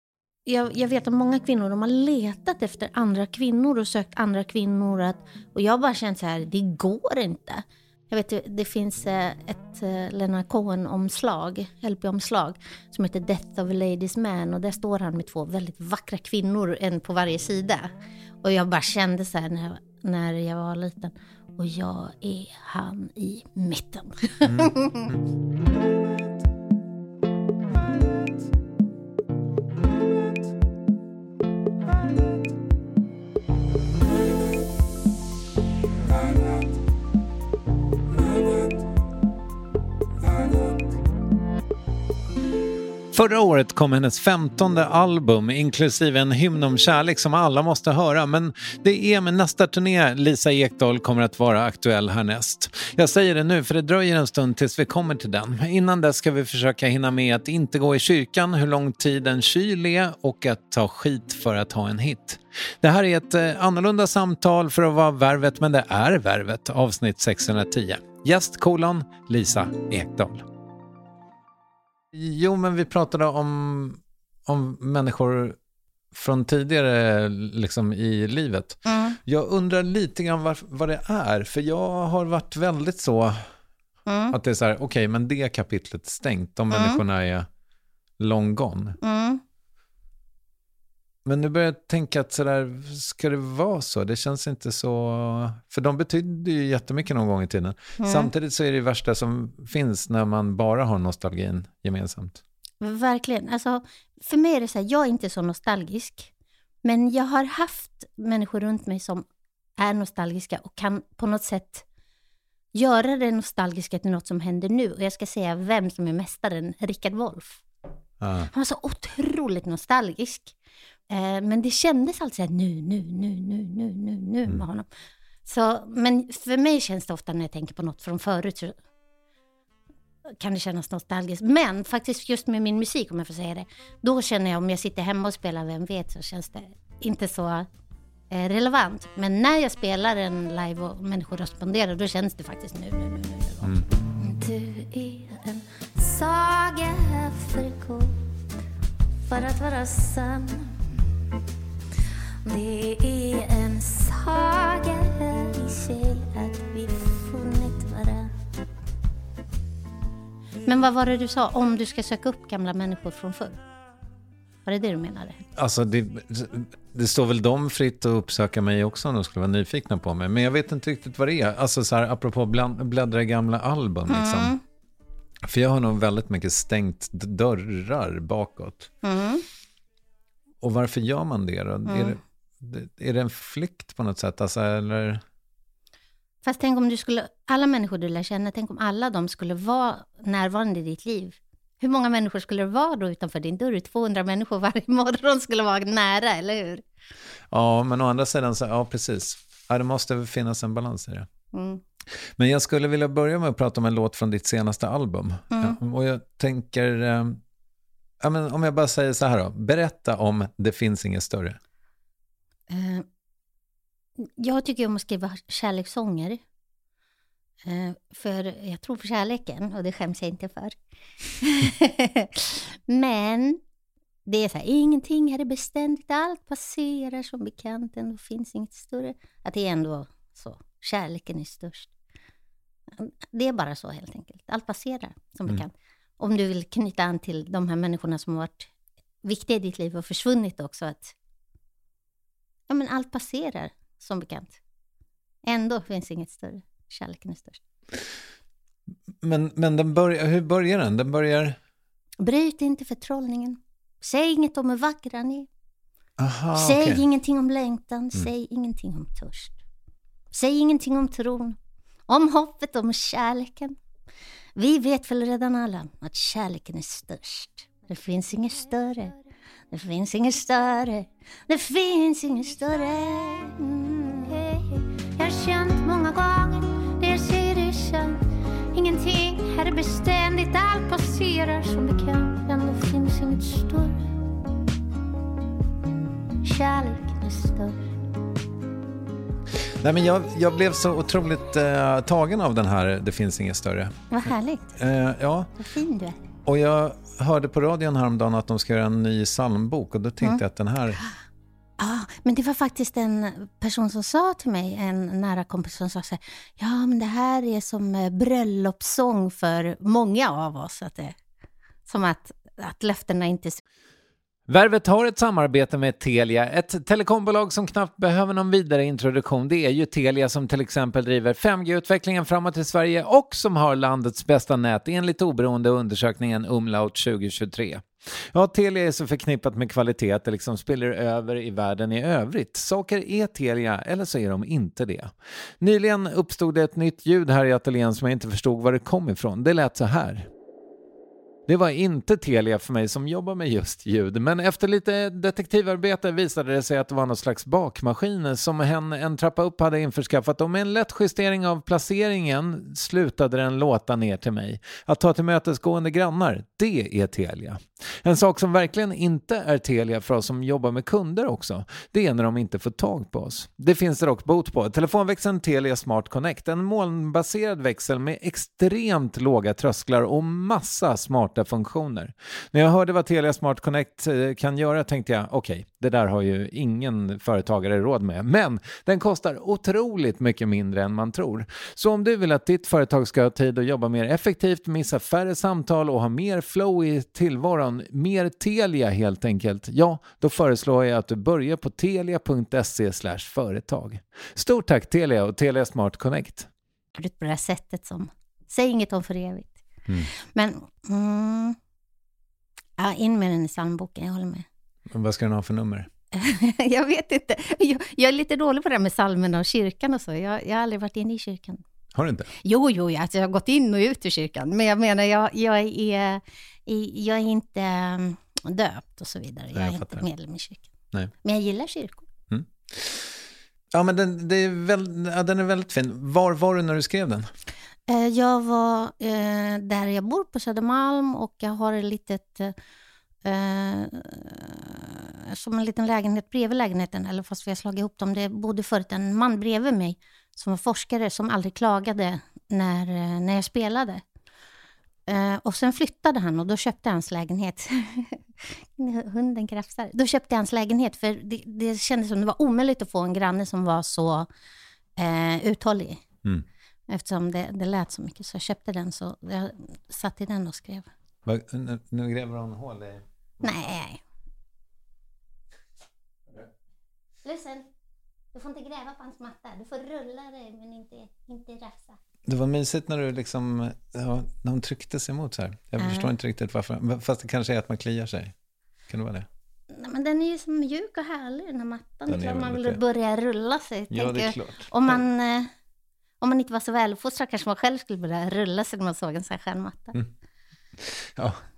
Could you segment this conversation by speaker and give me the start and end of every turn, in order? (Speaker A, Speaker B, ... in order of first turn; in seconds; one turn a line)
Speaker A: 0.5-25.1
Speaker B: 24.4-25.2
Speaker B: 43.1-70.5
Speaker B: 72.1-75.6
Speaker B: 76.1-83.4
Speaker A: 78.8-79.2
Speaker A: 84.0-84.3
Speaker B: 84.3-87.5
Speaker A: 86.7-87.0
Speaker B: 88.2-89.0
Speaker A: 89.0-89.4
Speaker B: 91.2-102.4
Speaker A: 98.0-98.3
Speaker A: 102.8-106.3
Speaker A: 106.8-111.8
Speaker A: 112.7-117.6
Speaker B: 118.2-118.5
Speaker A: 118.5-120.5
Speaker A: 121.1-124.9
Speaker A: 125.4-128.8
Speaker A: 130.2-137.7
Speaker A: 138.3-148.4
Speaker A: 149.3-151.0
Speaker A: 152.4-158.4
Speaker A: 160.6-163.6
Speaker A: 164.7-165.4
Speaker B: 165.5-174.6
Speaker A: 174.1-174.6
Speaker B: 175.5-178.9
Speaker A: 179.0-179.4
Speaker B: 180.6-185.2
Speaker A: 181.8-182.2
Speaker A: 186.4-196.8
Speaker B: 197.5-201.3
Speaker A: 201.5-201.8
Speaker B: 202.4-207.4
Speaker A: 205.5-205.8
Speaker B: 208.2-211.6
Speaker A: 212.7-213.1
Speaker A: 214.2-216.4
Speaker A: 217.6-220.8
Speaker A: 221.4-223.6
Speaker A: 224.2-231.9
Speaker A: 232.9-238.7
Speaker A: 239.2-241.1
Speaker A: 242.7-244.6
Speaker A: 245.4-247.6
Speaker B: 249.2-251.6
Speaker A: 252.2-255.5
Speaker B: 256.2-257.0
Speaker A: 256.5-259.6
Speaker A: 260.3-263.8
Speaker A: 264.6-269.2
Speaker A: 269.7-284.2
Speaker A: 286.4-287.9
Speaker B: 289.8-293.9
Speaker A: 294.1-294.7
Speaker B: 294.8-295.5
Speaker A: 295.6-296.2
Speaker B: 296.4-301.0
Speaker A: 301.8-311.2
Speaker A: 311.9-313.6
Speaker B: 314.5-340.3
Speaker B: 341.5-396.5
Speaker A: 396.9-399.6
Speaker A: 400.1-401.6
Speaker A: 402.8-404.5
Speaker B: 404.9-405.9
Speaker A: 406.1-411.6
Speaker B: 411.9-412.3
Speaker A: 412.4-420.7
Speaker B: 419.5-420.1
Speaker A: 421.2-422.1
Speaker B: 422.3-423.2
Speaker B: 423.7-427.3
Speaker A: 427.9-432.5
Speaker A: 433.2-444.0
Speaker A: 445.1-454.3
Speaker A: 455.0-456.0
Speaker A: 456.9-460.9
Speaker B: 461.2-463.5
Speaker A: 463.4-464.0
Speaker A: 467.2-467.7
Speaker A: 468.3-472.0
Speaker B: 472.2-478.3
Speaker A: 475.8-476.1
Speaker B: 478.9-479.3
Speaker A: 479.7-485.5
Speaker B: 482.1-482.8
Speaker B: 483.9-485.0
Speaker A: 486.2-489.9
Speaker B: 490.8-491.4